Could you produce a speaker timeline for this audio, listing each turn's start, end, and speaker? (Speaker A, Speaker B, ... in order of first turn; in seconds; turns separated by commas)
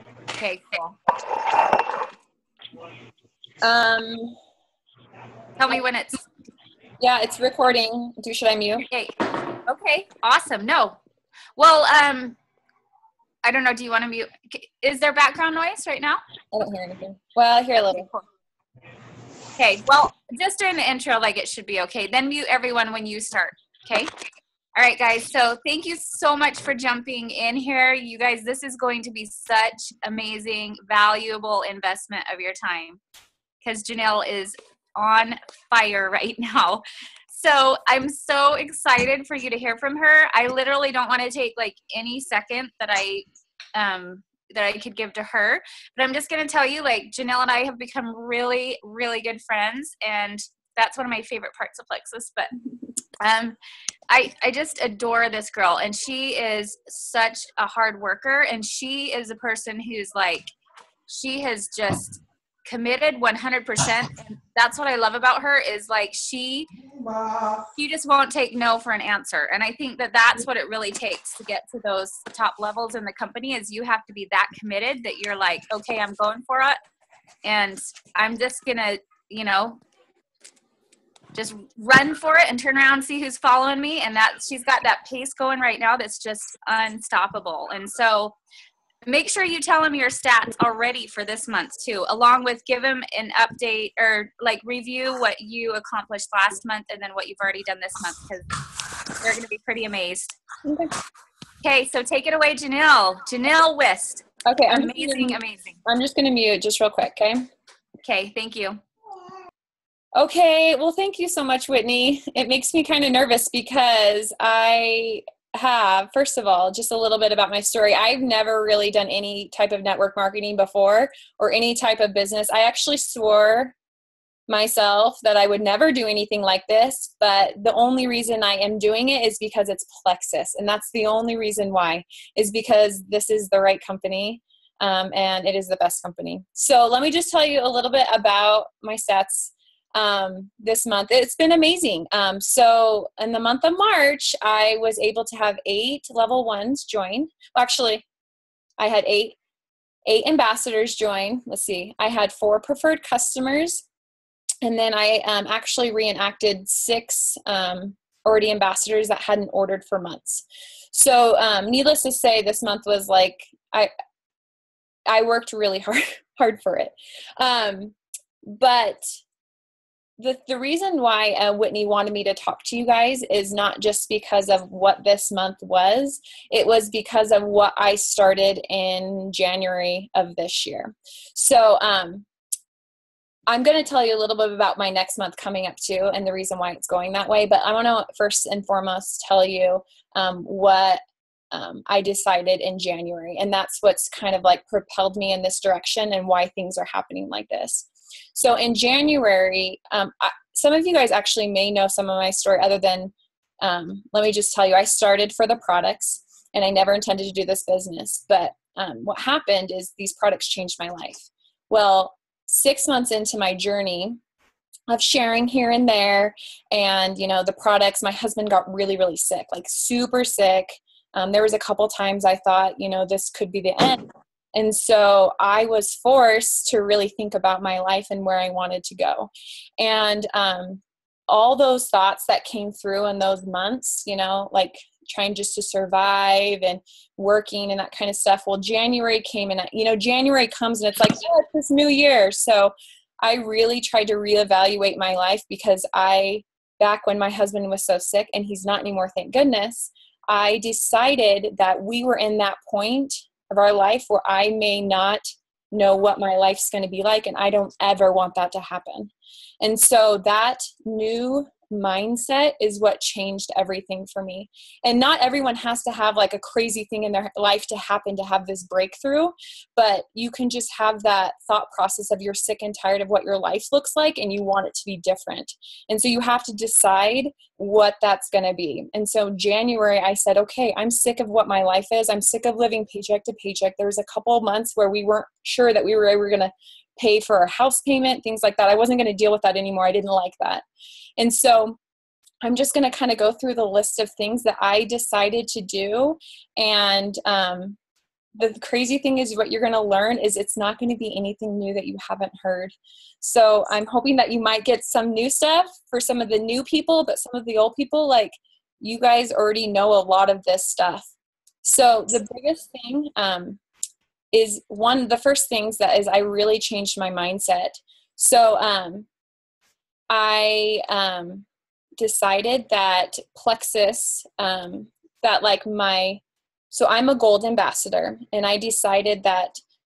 Speaker A: 0.3-1.0, Speaker B: 3.6-4.4, Speaker A: 5.6-6.2, Speaker B: 7.0-8.9, Speaker A: 8.9-11.0, Speaker A: 11.6-12.4, Speaker A: 13.4-16.2, Speaker B: 16.5-18.1, Speaker A: 17.9-18.2, Speaker A: 19.6-24.1, Speaker A: 24.8-33.0, Speaker A: 33.6-52.5, Speaker A: 53.2-53.6, Speaker A: 54.1-60.5, Speaker A: 61.1-66.7, Speaker A: 67.8-76.8, Speaker A: 77.4-79.8, Speaker A: 81.3-88.4, Speaker A: 89.0-98.5, Speaker A: 99.2-100.4, Speaker B: 100.6-100.9, Speaker A: 101.6-105.8, Speaker B: 104.5-107.4, Speaker A: 108.0-108.8, Speaker B: 110.1-123.8, Speaker B: 124.5-148.0, Speaker B: 148.8-149.3, Speaker B: 150.1-153.8, Speaker B: 154.6-163.9, Speaker B: 165.1-169.2, Speaker B: 170.2-182.2, Speaker B: 183.5-191.0, Speaker B: 191.5-214.2, Speaker B: 214.9-290.6, Speaker B: 291.2-291.8, Speaker B: 292.4-297.8, Speaker B: 298.4-311.1, Speaker B: 311.6-313.6, Speaker B: 314.3-319.1, Speaker B: 320.1-321.5, Speaker B: 322.0-329.6